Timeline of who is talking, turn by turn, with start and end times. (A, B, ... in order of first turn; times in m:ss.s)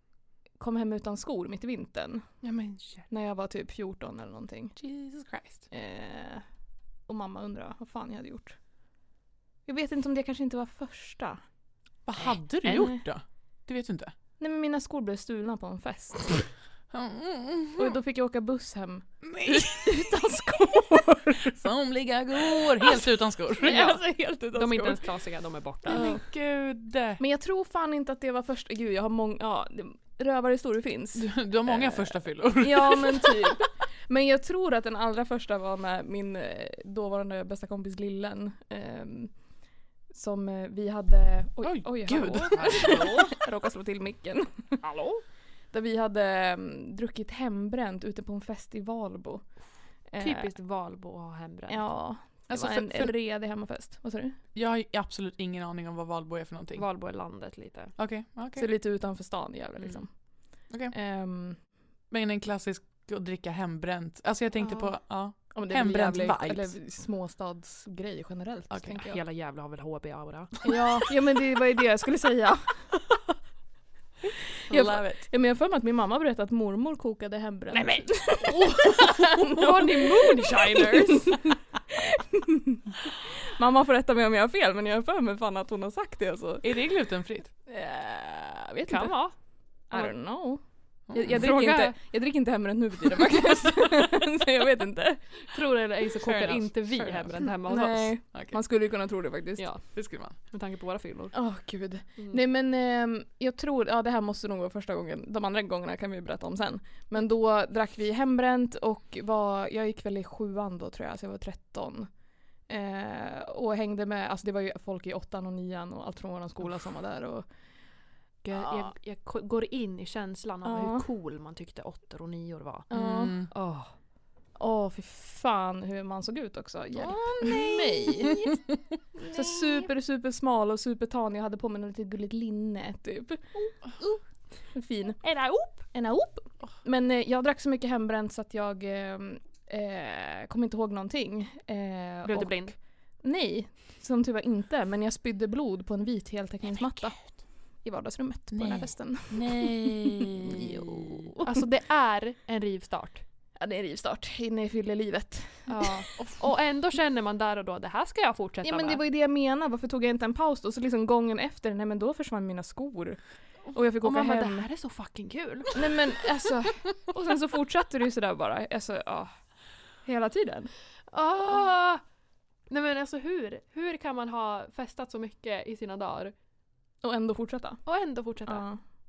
0:00.6-0:02.3 A
0:02.4-0:03.1 B
0:03.1-0:04.8 A
0:04.8-0:05.6 C
0:05.7-0:06.4 A
0:07.1-0:08.6 A
0:09.7-0:11.4 A
0:12.1-0:14.1 C
0:12.2-0:12.8 B
0:12.6-0:13.0 A
0:14.4-0:16.5 A
0:16.9-0:18.0 C
0:17.8-0:21.6 A
0:19.3-0:20.0 C
0:21.4-0:24.0 C
0:22.4-0:25.1 A
0:24.5-0:26.1 B
0:25.8-0:26.2 A
0:25.9-0:27.2 C
0:27.2-0:39.4 A
0:31.1-0:33.6 C
0:40.1-0:44.8 A
0:41.6-0:43.2 C
0:42.5-0:43.3 B
0:44.8-0:45.2 B
0:45.7-0:50.5 A
0:50.2-0:52.0 B
0:51.7-0:54.4 A
0:52.5-0:53.1 C
0:54.5-0:56.9 C
0:56.8-0:57.9 B
0:58.0-0:58.7 C
0:58.6-1:01.6 A
0:59.8-1:00.0 B
1:02.1-1:06.7 C
1:04.6-1:05.0 B
1:05.5-1:09.2 A
1:08.7-1:09.0 C
1:09.0-1:10.6 B
1:10.6-1:12.9 A
1:14.7-1:15.0 B
1:14.7-1:26.7 A
1:14.7-1:15.2 C
1:17.7-1:21.5 B
1:26.6-1:27.5 C
1:27.7-1:29.2 A
1:28.9-1:29.4 B
1:29.9-1:35.2 A
1:31.1-1:31.4 C
1:31.3-1:32.0 B
1:35.5-1:38.2 B
1:36.2-1:37.4 C
1:37.7-1:39.7 A
1:38.3-1:38.6 C
1:39.6-1:41.3 B
1:39.8-1:40.4 C
1:41.3-1:52.1 A
1:52.7-1:57.5 A
1:58.4-2:02.9 B
1:58.6-1:58.9 A
2:00.6-2:01.0 A
2:02.9-2:03.4 A
2:02.9-2:03.5 C
2:03.5-2:03.9 B
2:04.6-2:08.6 A
2:07.0-2:08.1 B
2:09.2-2:09.9 B
2:09.2-2:14.2 A
2:14.7-2:31.6 A
2:15.2-2:15.8 B
2:22.2-2:22.8 B
2:28.5-2:31.2 C
2:31.4-2:33.2 B
2:33.6-2:36.1 A
2:35.7-2:39.0 B
2:38.6-2:44.7 A
2:44.0-2:46.0 B
2:45.7-2:49.3 A
2:50.0-2:50.7 A
2:51.1-2:52.0 B
2:52.7-2:56.4 B
2:57.0-2:58.8 A
2:57.9-2:58.7 B